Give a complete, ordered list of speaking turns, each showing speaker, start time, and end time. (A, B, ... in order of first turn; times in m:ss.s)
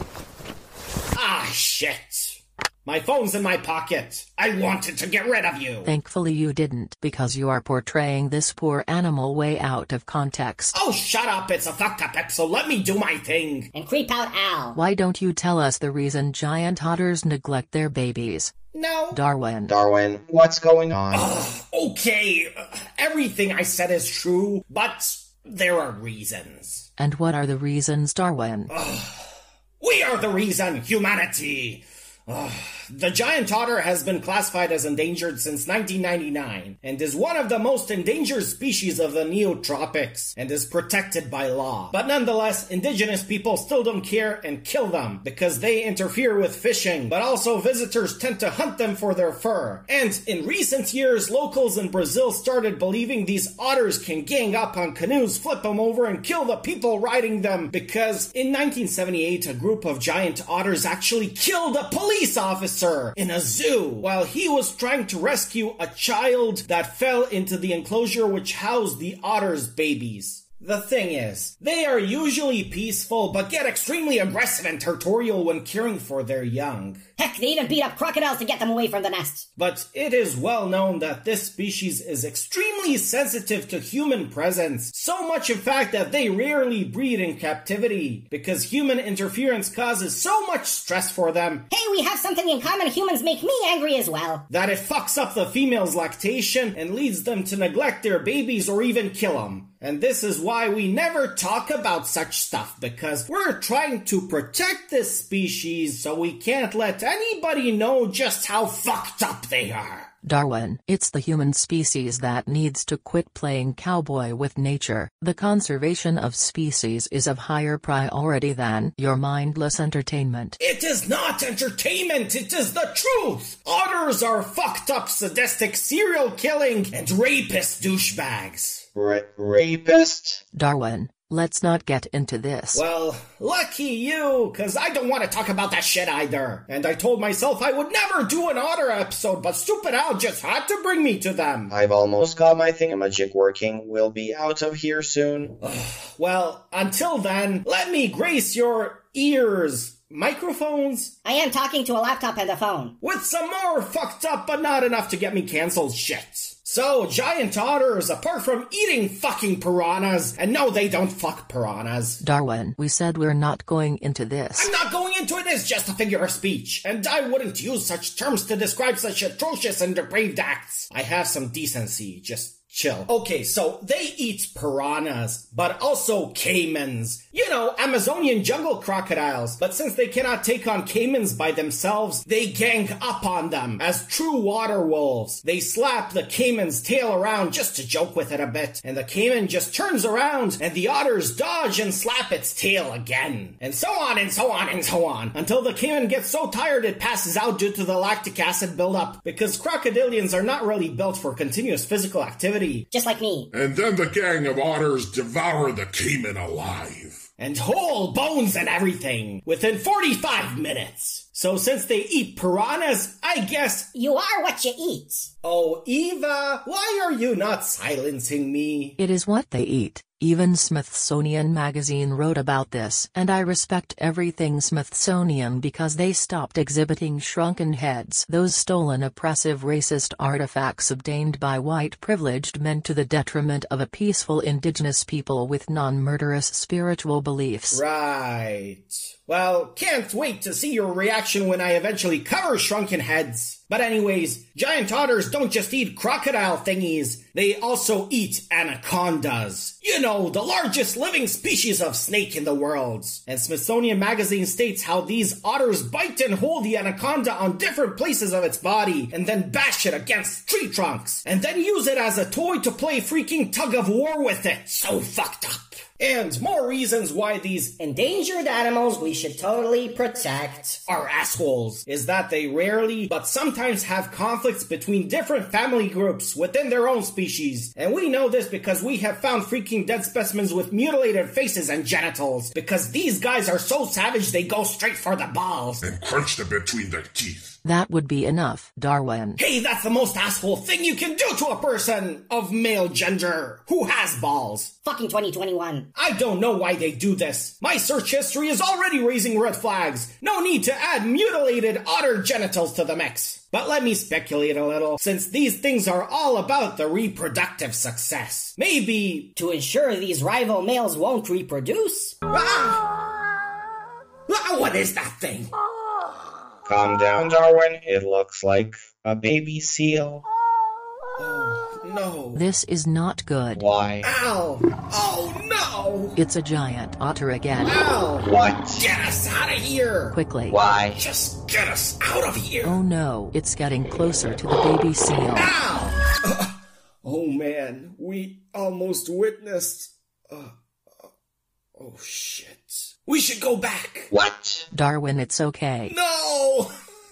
0:01.1-0:05.9 A
0:05.8-0:10.7 B
0:10.7-0:13.7 A
0:13.7-0:14.8 C
0:14.7-0:18.5 B
0:18.7-0:19.2 A
0:19.1-0:19.7 B
0:19.7-0:21.3 D
0:21.1-0:26.9 A
0:27.0-0:28.7 B
0:28.7-1:17.0 A
1:17.2-1:19.4 C
1:19.6-1:31.7 A
1:31.7-1:34.4 C
1:34.5-1:50.1 A
1:50.2-2:00.6 B
2:00.6-2:08.8 A
2:08.9-2:10.4 D
2:10.5-2:12.8 B
2:12.7-2:21.7 A
2:21.7-2:25.6 D
2:25.6-2:31.1 A
2:31.2-2:33.0 C
2:33.0-2:42.2 A
2:42.2-2:44.7 B
2:44.5-3:22.8 A
3:22.9-3:23.5 C
3:23.5-3:27.3 E
3:27.4-3:33.9 A
3:33.9-3:35.3 C
3:35.4-3:39.0 A
3:39.0-3:57.8 B
3:57.7-4:27.8 A
4:27.8-4:30.8 C
4:30.8-4:45.8 A
4:45.8-4:47.6 E
4:47.6-4:49.4 B
4:49.4-4:54.7 A
4:54.8-4:55.9 C
4:55.9-5:09.3 A
5:09.4-5:12.2 C
5:12.3-5:12.9 A
5:14.3-5:15.5 A
5:16.6-5:20.2 D
5:21.2-5:22.4 A
5:22.3-5:23.6 B
5:23.5-5:24.1 D
5:24.0-5:26.2 A
5:26.2-5:27.8 B
5:27.6-5:30.2 A
5:28.2-5:28.8 D
5:30.1-5:30.6 B
5:30.5-5:31.0 D
5:30.9-5:32.8 A
5:32.6-5:35.5 B
5:35.4-5:41.1 A
5:41.8-5:44.1 A
5:44.1-5:44.7 D
5:44.7-5:45.9 B
5:45.9-5:46.7 A